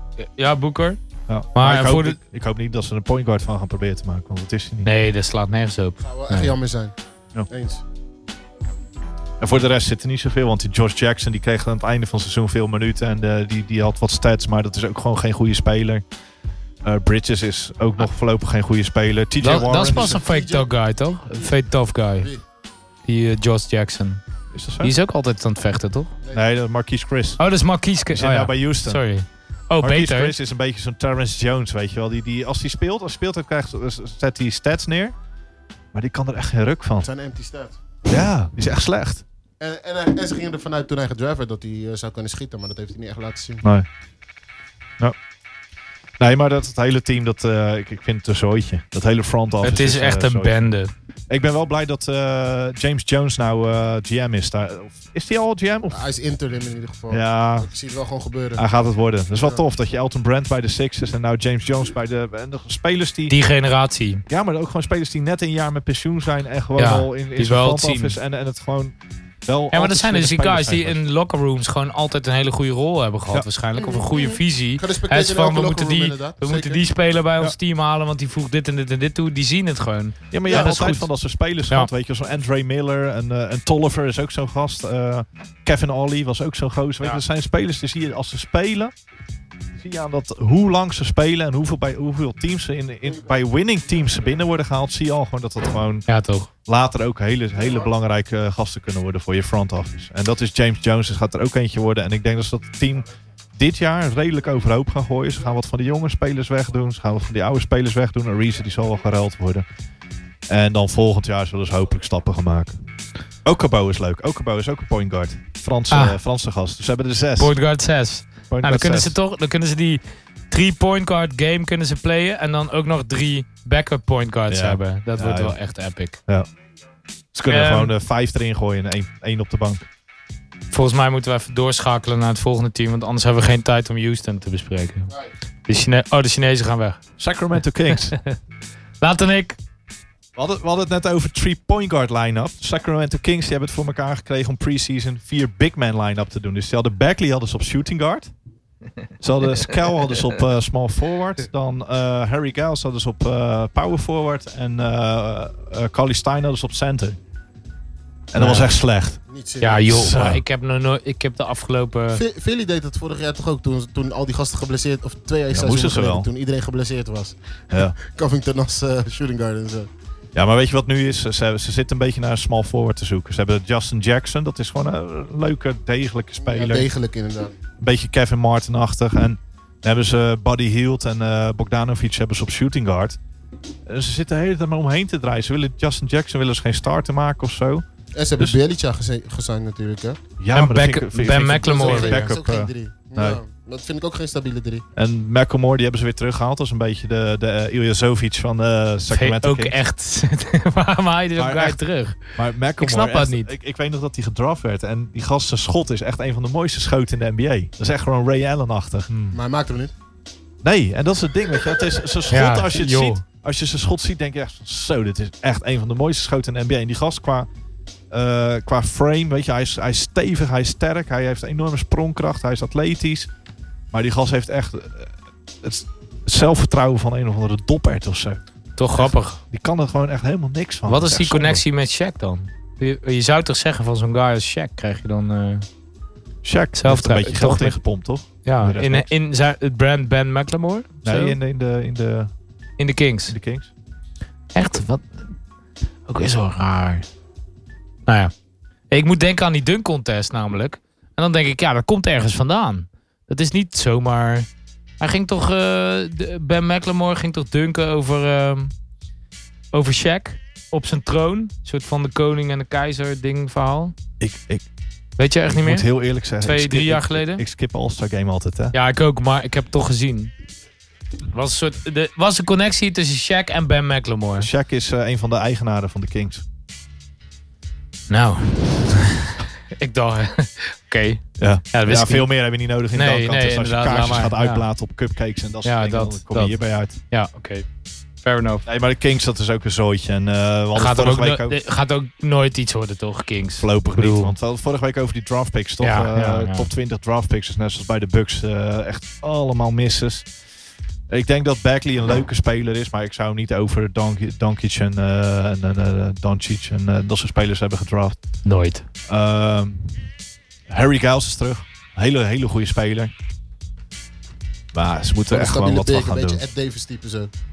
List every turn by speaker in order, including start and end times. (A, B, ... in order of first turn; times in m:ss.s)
0:00.2-0:01.0 A
0:01.3-0:04.9 B
0:01.5-0:02.2 A
0:04.8-0:06.0 A
0:06.0-0:06.9 C
0:07.5-0:07.8 C
0:09.4-0:16.0 B
0:16.8-0:20.2 B
0:19.4-0:22.3 A
0:19.7-0:21.6 C
0:22.2-0:22.4 C
0:23.0-0:24.2 A
0:24.5-0:24.9 B
0:24.8-0:26.1 A
0:26.3-0:27.4 B
0:27.4-0:30.3 A
0:28.1-0:29.0 B
0:29.8-0:35.1 B
0:35.9-0:37.1 B
0:37.0-0:37.8 C
0:38.1-0:39.2 B
0:39.6-0:43.6 C
0:46.2-0:50.6 B
0:49.6-0:50.9 A
0:51.3-0:56.0 B
0:55.9-0:58.6 C
0:57.1-0:57.7 B
0:58.6-1:03.4 B
1:03.3-1:04.2 A
1:04.3-1:11.0 B
1:06.8-1:08.2 A
1:09.7-1:21.1 A
1:13.7-1:16.8 C
1:20.3-1:28.9 B
1:20.5-1:20.8 C
1:29.8-1:36.1 B
1:36.1-1:36.5 A
1:36.6-1:49.6 B
1:37.6-1:37.8 C
1:50.5-1:52.8 B
1:53.4-1:57.5 B
1:55.9-1:56.2 A
1:57.4-2:06.2 A
1:58.5-1:59.1 B
2:04.5-2:05.6 B
2:07.3-2:09.9 B
2:07.5-2:07.9 A
2:10.7-2:15.1 A
2:15.7-2:17.0 A
2:17.2-2:18.2 B
2:19.0-2:19.6 A
2:20.4-2:28.3 B
2:29.2-2:37.2 B
2:38.3-2:39.2 B
2:38.4-2:38.7 A
2:39.3-2:39.9 C
2:39.6-2:42.2 A
2:39.8-2:40.4 B
2:42.1-2:49.9 C
2:45.5-2:46.3 B
2:47.7-2:48.0 B
2:50.3-2:56.9 B
2:56.4-2:57.6 C
2:57.8-3:03.2 B
3:03.8-3:07.8 B
3:08.1-3:10.2 C
3:10.4-3:13.4 B
3:10.5-3:12.2 A
3:11.6-3:14.8 C
3:15.0-3:19.8 B
3:19.1-3:23.5 A
3:21.4-3:29.1 B
3:29.1-3:29.4 A
3:29.3-3:29.9 C
3:30.6-3:37.5 B
3:32.3-3:33.2 A
3:38.1-3:43.3 B
3:43.9-3:48.4 B
3:48.8-3:49.4 A
3:49.0-3:51.6 B
3:50.9-3:55.6 A
3:56.4-3:59.1 B
3:56.7-3:57.8 A
3:58.4-4:01.4 A
4:01.0-4:02.3 B
4:02.8-4:03.4 A
4:03.3-4:03.7 B
4:04.5-4:05.1 A
4:06.1-4:07.1 A
4:08.1-4:08.3 A
4:08.9-4:14.5 A
4:15.0-4:18.7 A
4:19.7-4:23.9 A
4:24.2-4:24.6 B
4:25.2-4:25.9 A
4:25.5-4:28.7 B
4:26.4-4:27.4 A
4:28.7-4:30.3 A
4:31.3-4:34.5 A
4:34.4-4:36.4 B
4:38.1-4:42.3 A
4:41.4-4:47.0 B
4:42.9-4:44.6 A
4:45.6-4:47.6 A
4:48.2-4:48.6 A
4:48.6-4:51.6 B
4:50.7-4:54.3 A
4:53.6-5:00.3 B
4:55.8-4:56.7 A
5:01.1-5:08.2 B
5:08.4-5:08.8 A
5:09.1-5:10.1 B
5:10.7-5:13.1 B
5:14.7-5:16.4 B
5:15.3-5:17.3 C